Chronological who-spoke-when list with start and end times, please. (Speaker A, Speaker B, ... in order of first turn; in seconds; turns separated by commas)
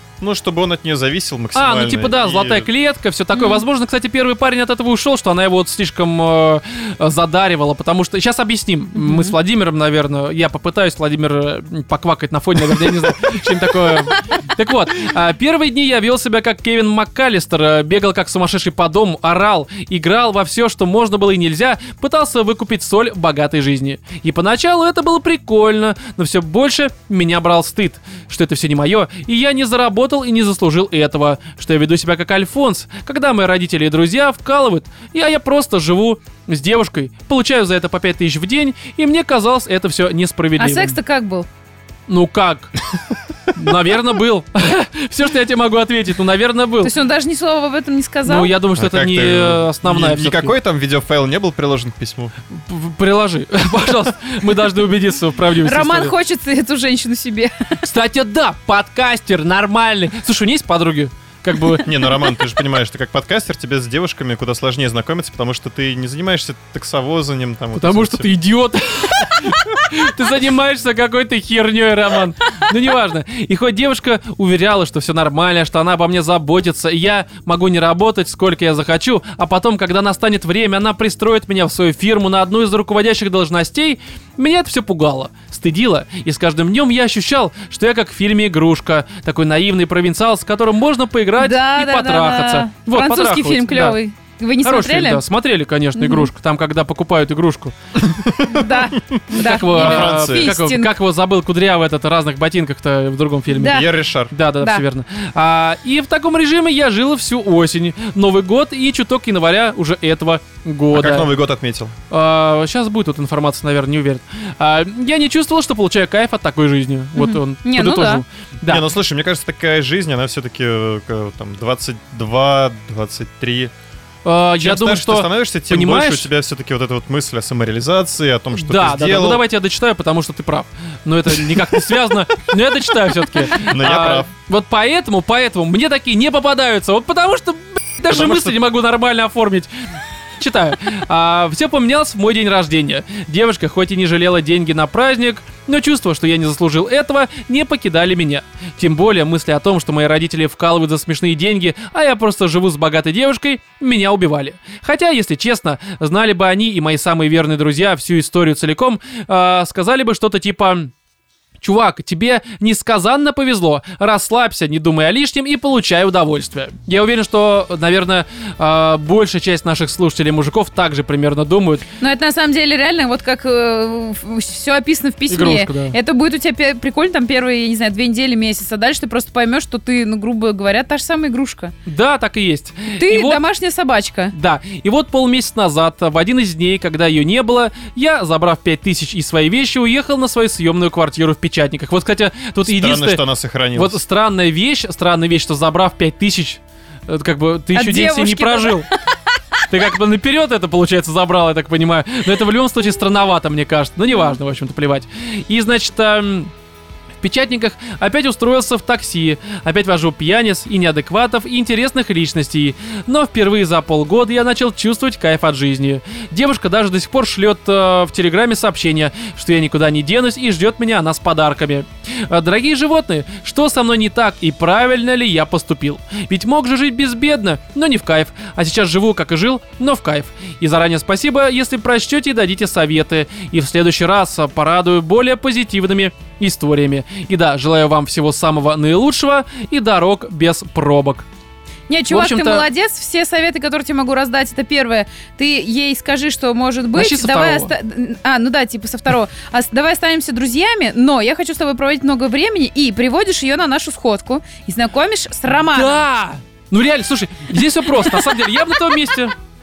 Speaker A: 0.2-2.7, Speaker B: 1.6-41.0, Speaker C: 3.3-3.6, Speaker C: 8.9-9.3, Speaker C: 40.6-41.5, Speaker B: 42.1-42.9, Speaker B: 43.5-46.9, Speaker C: 46.8-48.5, Speaker B: 48.2-50.5, Speaker A: 48.8-52.3, Speaker B: 52.5-56.1, Speaker C: 55.6-57.8, Speaker B: 57.8-62.0, Speaker A: 61.8-68.3, Speaker B: 67.8-94.0, Speaker C: 91.4-95.2, Speaker B: 94.6-97.7, Speaker C: 96.0-96.3, Speaker A: 98.0-100.5, Speaker C: 98.4-100.9, Speaker B: 99.4-111.3, Speaker C: 103.5-103.9, Speaker A: 103.6-104.3, Speaker A: 110.9-112.0, Speaker B: 112.1-118.9, Speaker C: 117.2-118.2, Speaker A: 118.7-123.7, Speaker B: 124.2-126.3, Speaker A: 124.6-129.4, Speaker B: 128.6-139.7, Speaker A: 133.6-134.3, Speaker A: 138.1-138.6, Speaker B: 140.4-160.9, Speaker B: 161.6-171.9, Speaker C: 172.0-181.7, Speaker B: 175.3-175.9, Speaker B: 181.9-183.4, Speaker C: 182.9-184.3, Speaker B: 184.3-193.2, Speaker A: 192.6-194.0, Speaker B: 193.7-198.9, Speaker C: 197.7-198.9, Speaker B: 199.7-206.5, Speaker B: 207.2-241.2, Speaker C: 241.9-256.0, Speaker B: 242.1-242.7, Speaker B: 246.9-247.7, Speaker B: 255.7-259.3